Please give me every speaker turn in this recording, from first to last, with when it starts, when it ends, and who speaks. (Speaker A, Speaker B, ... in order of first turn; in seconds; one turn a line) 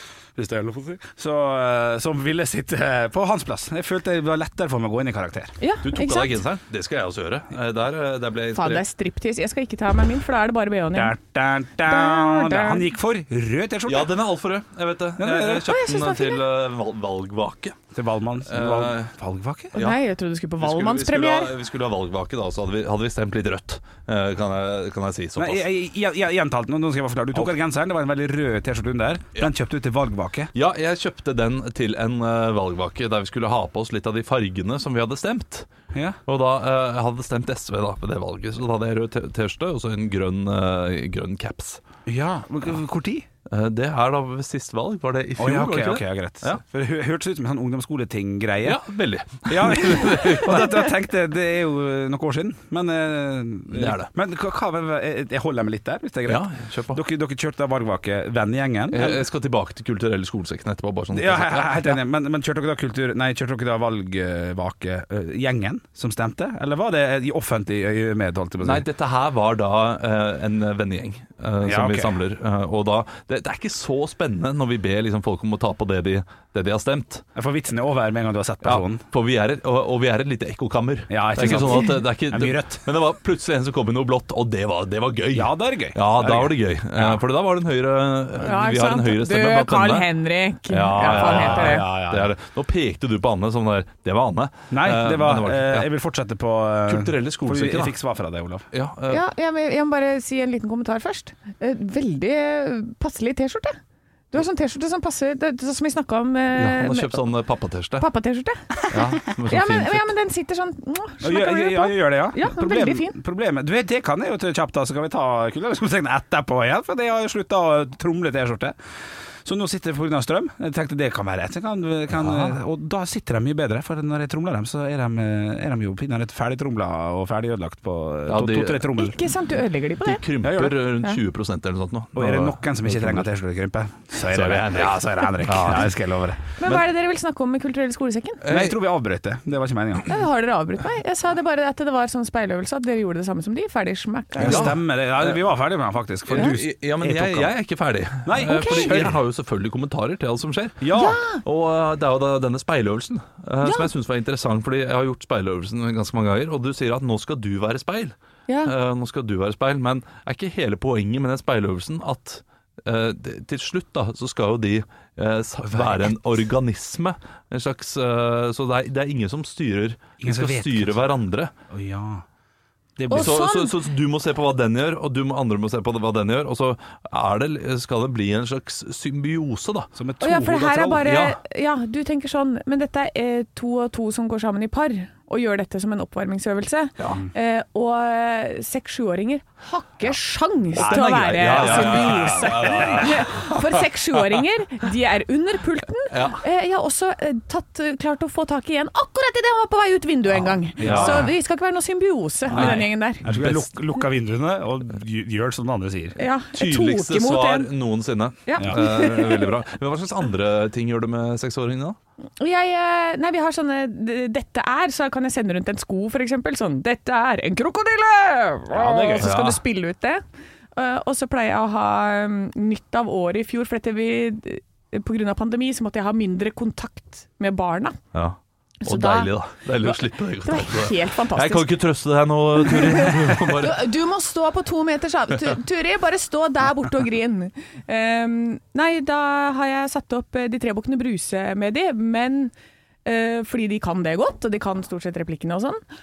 Speaker A: 0.3-5.5
Speaker B: 5.6-6.4
Speaker C: 5.8-8.8
Speaker B: 8.5-11.2
Speaker A: 10.9-14.1
Speaker B: 11.8-12.9
Speaker C: 13.8-17.8
Speaker A: 15.2-15.7
Speaker B: 15.7-16.4
Speaker A: 17.9-19.7
Speaker C: 18.5-19.1
Speaker B: 19.7-21.5
Speaker C: 20.6-25.6
Speaker A: 25.4-30.5
Speaker C: 30.5-35.7
Speaker C: 36.3-41.8
Speaker A: 42.1-43.2
Speaker C: 43.5-46.6
Speaker A: 45.4-48.8
Speaker C: 48.6-50.9
Speaker A: 49.5-59.2
Speaker C: 53.7-54.1
Speaker C: 56.2-57.0
Speaker C: 58.9-62.0
Speaker A: 61.1-68.8
Speaker C: 68.6-77.2
Speaker A: 71.6-72.2
Speaker A: 77.3-79.0
Speaker C: 78.6-90.1
Speaker A: 81.1-82.8
Speaker A: 85.3-87.2
Speaker B: 88.4-91.8
Speaker C: 90.7-95.9
Speaker A: 91.0-92.3
Speaker A: 94.7-98.7
Speaker C: 96.9-97.9
Speaker C: 98.7-99.2
Speaker B: 99.1-103.8
Speaker B: 104.3-107.2
Speaker C: 106.5-108.0
Speaker B: 108.0-113.2
Speaker C: 108.9-110.1
Speaker A: 111.2-118.8
Speaker A: 119.4-129.2
Speaker C: 122.1-122.6
Speaker C: 128.3-128.9
Speaker B: 128.9-130.3
Speaker C: 130.0-133.3
Speaker A: 130.4-130.8
Speaker A: 132.1-136.6
Speaker C: 134.2-135.9
Speaker B: 136.6-138.4
Speaker C: 138.4-138.8
Speaker A: 138.5-140.1
Speaker B: 140.1-144.7
Speaker A: 144.4-147.5
Speaker C: 144.4-145.4
Speaker C: 146.3-171.5
Speaker A: 148.2-149.2
Speaker B: 148.4-149.1
Speaker A: 150.8-151.2
Speaker B: 150.9-151.4
Speaker B: 153.6-153.9
Speaker B: 158.5-158.7
Speaker A: 165.7-166.1
Speaker A: 170.2-171.0
Speaker A: 171.7-172.2
Speaker A: 173.0-173.4
Speaker B: 173.1-173.7
Speaker C: 173.1-179.9
Speaker A: 179.9-181.0
Speaker B: 180.2-203.3
Speaker C: 180.8-181.4
Speaker A: 190.8-193.1
Speaker C: 190.8-194.4
Speaker C: 196.1-196.4
Speaker A: 200.8-201.3
Speaker C: 200.8-201.3
Speaker C: 202.5-203.7
Speaker A: 202.5-206.2
Speaker B: 206.2-207.7
Speaker C: 206.5-212.0
Speaker B: 208.4-209.5
Speaker A: 208.6-208.8
Speaker B: 212.4-220.2
Speaker A: 218.7-219.3
Speaker C: 219.2-219.6
Speaker B: 220.7-228.0
Speaker C: 228.1-233.8
Speaker B: 228.8-229.3
Speaker B: 229.8-231.7
Speaker B: 232.6-242.5
Speaker B: 243.0-245.8